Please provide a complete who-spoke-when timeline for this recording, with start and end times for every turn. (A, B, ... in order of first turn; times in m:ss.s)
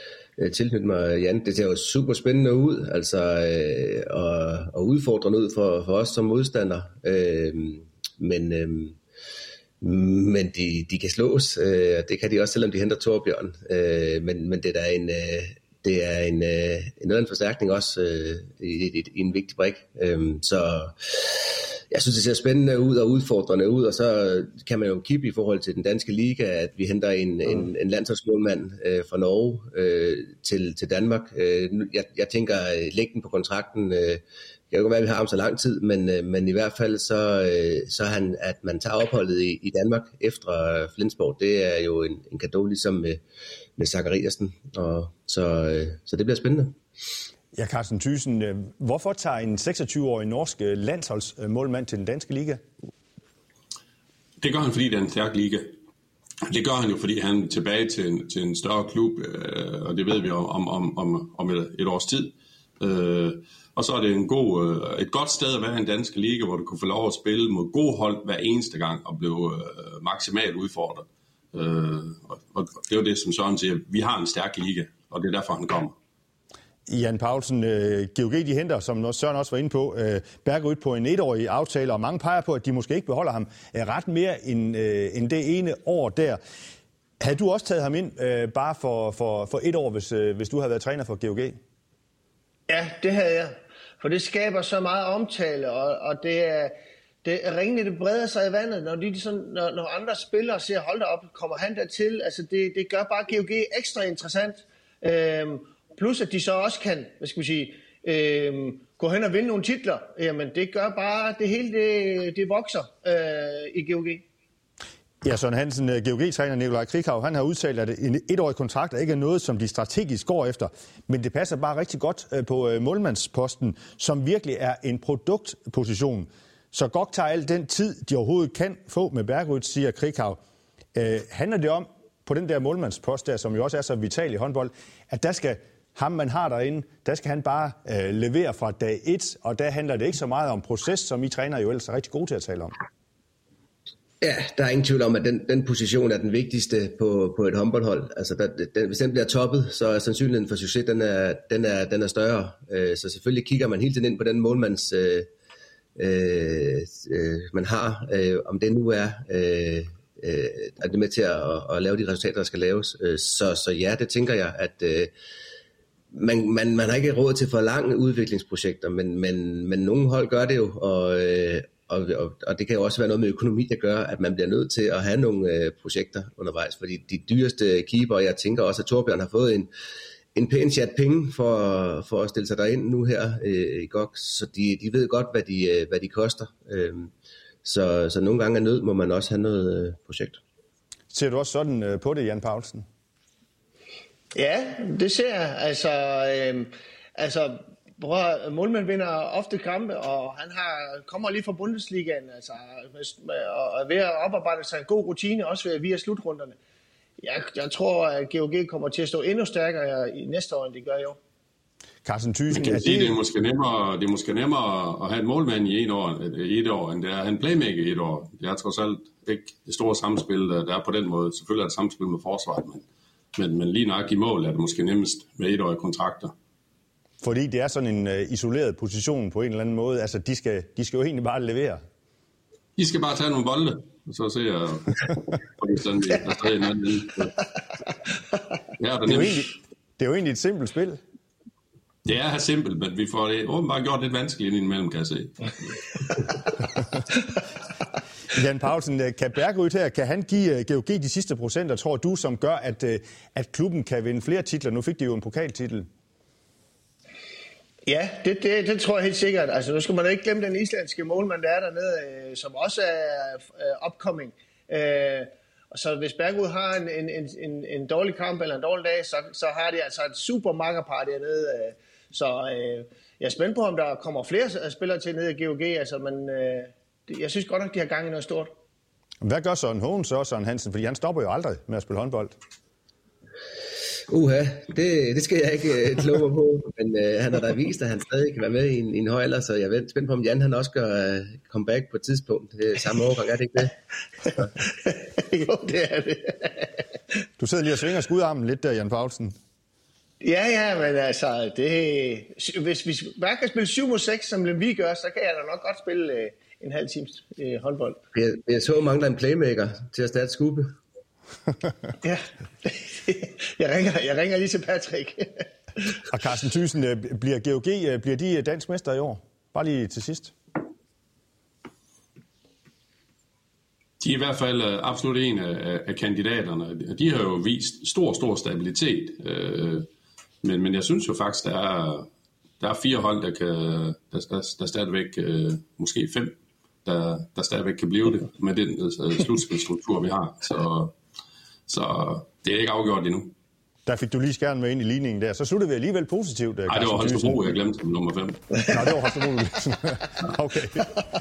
0:00.4-0:09.0 A
0:09.8-0:43.2 A
0:43.8-0:46.8 A
0:47.5-0:52.6 B
0:54.4-0:55.7 C
0:56.5-1:16.0 C
1:16.9-1:26.4 B
1:27.2-1:31.6 B
1:32.7-1:54.2 D
1:55.2-2:10.4 B
2:11.0-2:22.7 B
2:24.2-2:35.3 A
2:36.0-2:45.1 A
2:46.1-2:59.7 A
3:00.4-3:07.1 A
3:07.6-3:10.4 A
3:11.1-3:12.8 B
3:14.3-3:26.6 D
3:27.2-3:31.2 D
3:32.0-3:33.2 B
3:32.5-3:46.3 C
3:47.2-3:51.8 B
3:52.8-3:57.4 C
3:58.8-3:59.5 C
3:59.1-4:01.0 B
4:02.0-4:06.2 C
4:08.3-4:15.9 B
4:17.9-4:38.5 D
4:39.2-4:42.4 B
4:44.1-4:53.7 A
4:54.6-4:56.7 D
4:57.4-4:59.3 B
5:00.2-5:08.0 D
5:08.1-5:10.7 A
5:12.0-5:15.5 D
5:16.1-5:20.3 B
5:24.0-5:29.9 C
5:30.4-5:32.1 C
5:32.6-5:41.0 C
5:41.7-5:43.3 C
5:43.9-5:47.5 B
5:46.7-5:48.9 C
5:48.7-5:50.9 B